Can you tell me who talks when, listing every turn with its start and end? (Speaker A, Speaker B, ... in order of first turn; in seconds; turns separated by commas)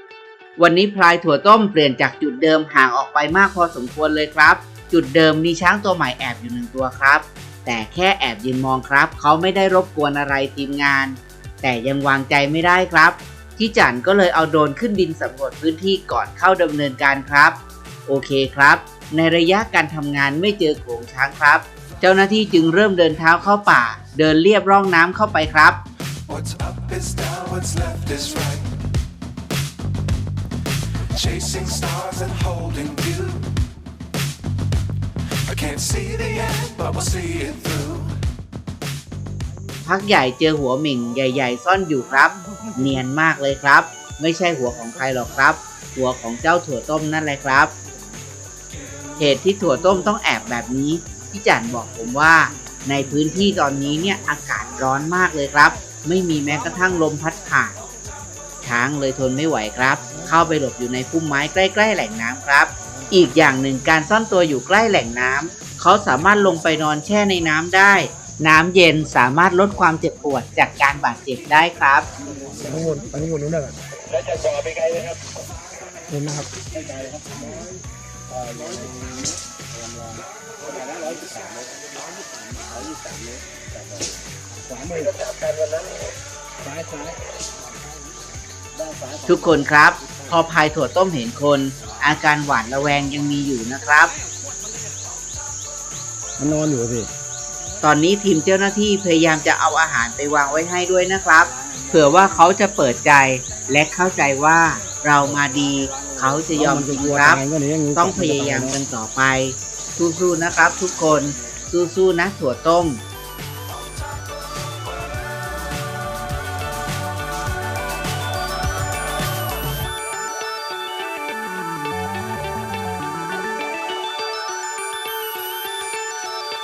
Speaker A: 0.6-25.8, Speaker B: 26.3-28.8, Speaker B: 31.1-33.6, Speaker B: 35.5-38.2, Speaker A: 39.9-47.7, Speaker A: 49.2-57.8, Speaker A: 58.6-72.1, Speaker C: 72.7-73.3, Speaker D: 72.8-73.7, Speaker C: 74.2-75.2, Speaker D: 76.2-76.5, Speaker C: 76.8-77.5, Speaker C: 78.4-79.1, Speaker C: 79.9-81.9, Speaker C: 82.5-84.1, Speaker C: 84.9-85.9, Speaker C: 88.8-89.2, Speaker A: 89.2-94.1, Speaker D: 96.4-97.1, Speaker A: 97.8-107.4, Speaker D: 106.5-108.8, Speaker A: 108.0-113.0